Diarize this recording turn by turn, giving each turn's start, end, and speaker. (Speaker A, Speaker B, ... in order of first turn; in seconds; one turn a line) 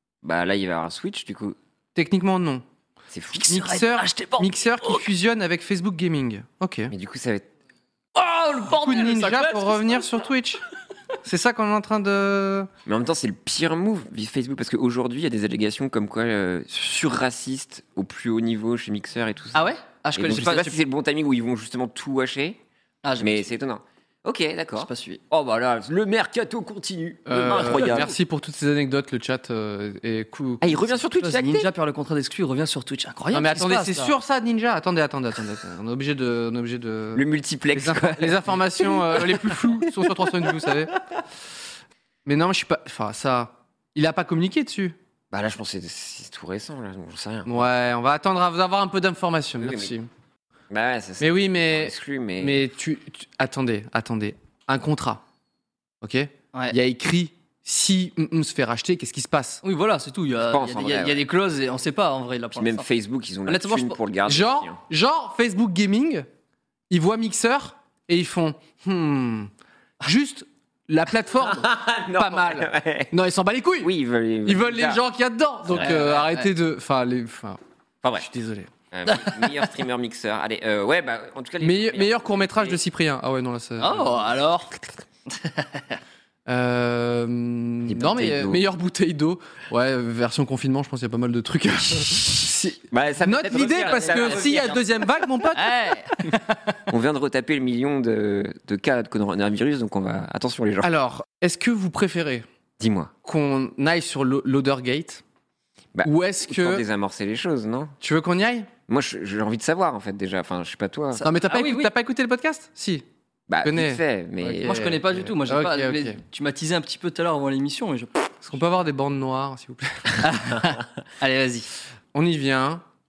Speaker A: 0.2-1.6
Speaker B: 1.9-2.6
Speaker A: 3.1-3.5
Speaker C: 3.3-5.1
Speaker B: 3.5-6.9
Speaker A: 6.9-7.5
Speaker C: 8.2-10.0
Speaker B: 8.7-10.6
Speaker B: 11.2-12.7
Speaker A: 12.9-22.6
Speaker C: 19.5-20.8
Speaker C: 23.0-23.5
Speaker A: 23.2-28.1
Speaker C: 24.8-25.2
Speaker B: 27.3-30.9
Speaker C: 27.4-28.1
Speaker A: 30.6-31.7
Speaker C: 31.2-34.1
Speaker B: 33.3-41.0
Speaker A: 37.1-40.7
Speaker B: 42.3-45.0
Speaker A: 45.3-47.6
Speaker B: 47.5-50.1
Speaker A: 49.6-49.9
Speaker A: 50.7-52.6
Speaker B: 51.2-55.2
Speaker B: 56.0-59.6
Speaker C: 59.6-62.9
Speaker A: 60.5-61.2
Speaker A: 62.6-64.8
Speaker C: 63.5-64.0
Speaker B: 64.3-66.3
Speaker B: 66.9-69.5
Speaker B: 70.0-73.9
Speaker A: 71.5-73.1
Speaker A: 73.8-75.0
Speaker B: 74.5-77.6
Speaker A: 75.7-76.2
Speaker C: 75.8-76.5
Speaker B: 78.2-78.7
Speaker A: 78.9-82.8
Speaker B: 81.6-84.2
Speaker C: 83.8-84.7
Speaker C: 85.3-86.0
Speaker B: 86.5-95.9
Speaker A: 87.9-88.6
Speaker A: 92.9-94.9
Speaker C: 93.7-94.7
Speaker C: 95.5-96.8
Speaker A: 96.9-100.9
Speaker B: 100.8-102.5
Speaker A: 102.8-103.1
Speaker B: 103.2-105.2
Speaker A: 106.0-107.9
Speaker B: 106.0-106.8
Speaker B: 108.0-108.7
Speaker A: 108.9-111.2
Speaker C: 111.1-111.9
Speaker B: 111.2-113.0
Speaker A: 113.5-114.8
Speaker B: 113.6-116.2
Speaker C: 114.6-118.3
Speaker B: 118.4-120.2
Speaker C: 120.2-121.7
Speaker B: 122.1-122.8